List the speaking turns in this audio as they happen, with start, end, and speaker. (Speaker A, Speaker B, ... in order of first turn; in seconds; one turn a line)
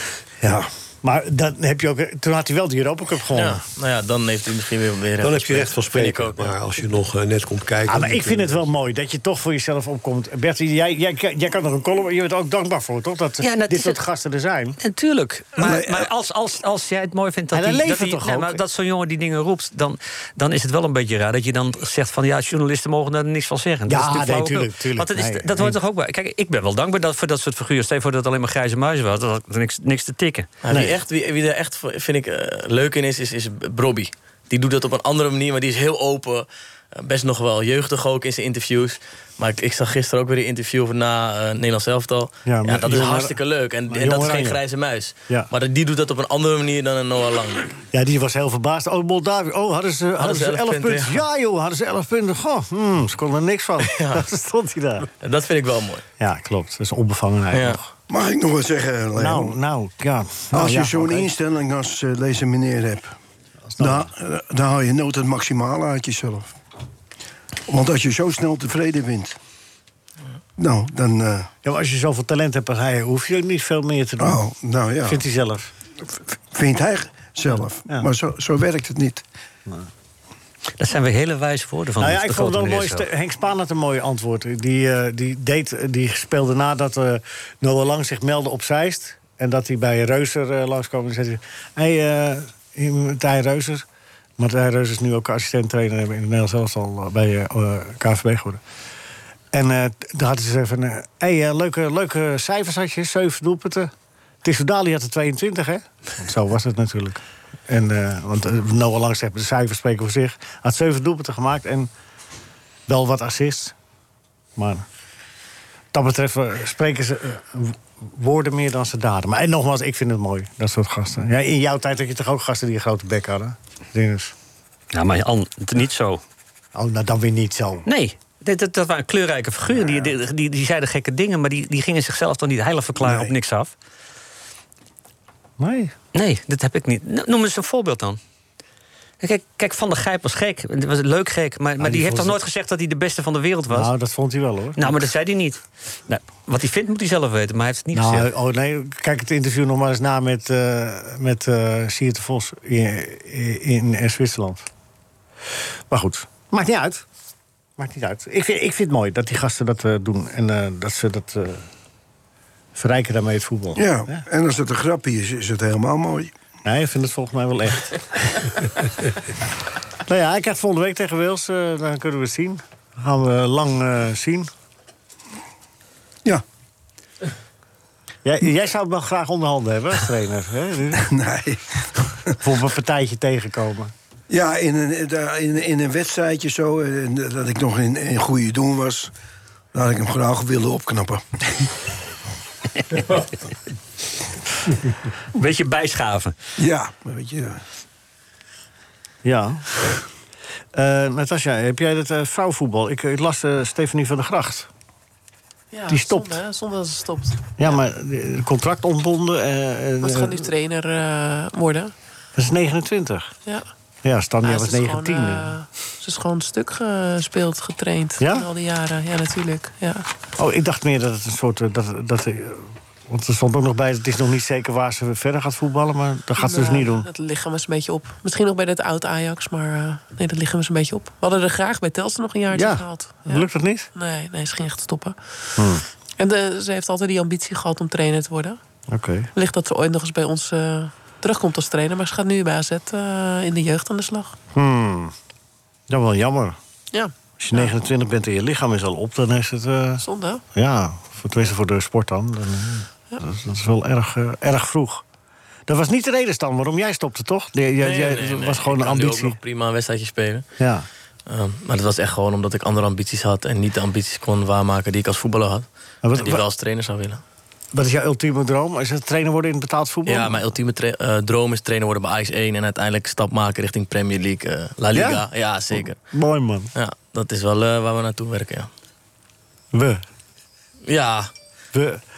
Speaker A: 0.4-3.6
Speaker B: 3.3-6.5
Speaker C: 5.2-8.7
Speaker A: 7.9-14.8
Speaker D: 13.4-14.0
Speaker D: 14.8-30.5
Speaker E: 15.6-16.1
Speaker A: 17.5-18.6
Speaker A: 23.9-25.8
Speaker B: 30.6-47.8
Speaker A: 30.7-31.0
Speaker A: 42.4-44.6
Speaker A: 47.9-55.1
Speaker B: 50.2-51.2
Speaker B: 53.9-54.2
Speaker B: 55.2-56.0
Speaker A: 56.2-57.9
Speaker B: 57.5-57.8
Speaker E: 58.1-59.5
Speaker A: 59.1-61.3
Speaker E: 60.5-63.1
Speaker A: 63.7-64.1
Speaker E: 63.8-66.5
Speaker E: 67.7-69.3
Speaker E: 70.6-71.5
Speaker A: 71.6-74.4
Speaker E: 74.2-75.2
Speaker A: 75.0-75.7
Speaker E: 76.5-79.2
Speaker D: 80.8-83.0
Speaker A: 82.0-93.8
Speaker A: 94.4-98.6
Speaker A: 99.5-103.9
Speaker A: 104.4-111.9
Speaker A: 112.9-113.7
Speaker A: 114.5-114.8
Speaker A: 115.9-124.3
Speaker D: 124.9-126.2
Speaker A: 126.7-127.8
Speaker D: 127.8-133.7
Speaker A: 135.6-135.9
Speaker D: 136.1-138.2
Speaker D: 139.2-143.9
Speaker A: 141.8-142.4
Speaker A: 143.7-145.0
Speaker D: 144.8-148.3
Speaker A: 147.9-154.7
Speaker A: 155.9-157.0
Speaker A: 157.8-161.6
Speaker A: 162.7-164.2
Speaker E: 163.7-166.3
Speaker A: 166.6-168.4
Speaker A: 170.1-174.5
Speaker A: 178.2-181.1
Speaker E: 181.0-182.3
Speaker A: 182.4-183.9
Speaker E: 184.3-189.1
Speaker E: 189.7-191.7
Speaker D: 195.3-196.3
Speaker E: 196.6-197.6
Speaker A: 199.2-199.7
Speaker A: 200.7-204.7
Speaker F: 205.7-207.8
Speaker A: 205.9-206.4
Speaker A: 207.6-210.5
Speaker F: 210.0-211.9
Speaker A: 212.3-213.3
Speaker A: 214.0-215.5
Speaker F: 214.4-220.1
Speaker A: 218.2-218.5
Speaker A: 220.4-227.1
Speaker F: 226.4-235.7
Speaker A: 232.5-233.9
Speaker A: 235.6-235.8
Speaker F: 236.2-238.6
Speaker A: 238.9-239.3
Speaker F: 239.3-244.3
Speaker A: 244.5-245.1
Speaker A: 245.9-246.6
Speaker F: 246.9-247.7
Speaker A: 247.4-255.0
Speaker F: 250.0-250.4
Speaker A: 255.7-259.4
Speaker B: 257.8-260.4
Speaker A: 260.6-260.9
Speaker B: 261.3-267.2
Speaker A: 266.0-266.4
Speaker A: 267.7-270.4
Speaker B: 270.1-276.0
Speaker A: 274.9-276.7
Speaker B: 276.7-278.7
Speaker A: 279.7-280.0
Speaker B: 280.8-281.3
Speaker A: 281.7-282.0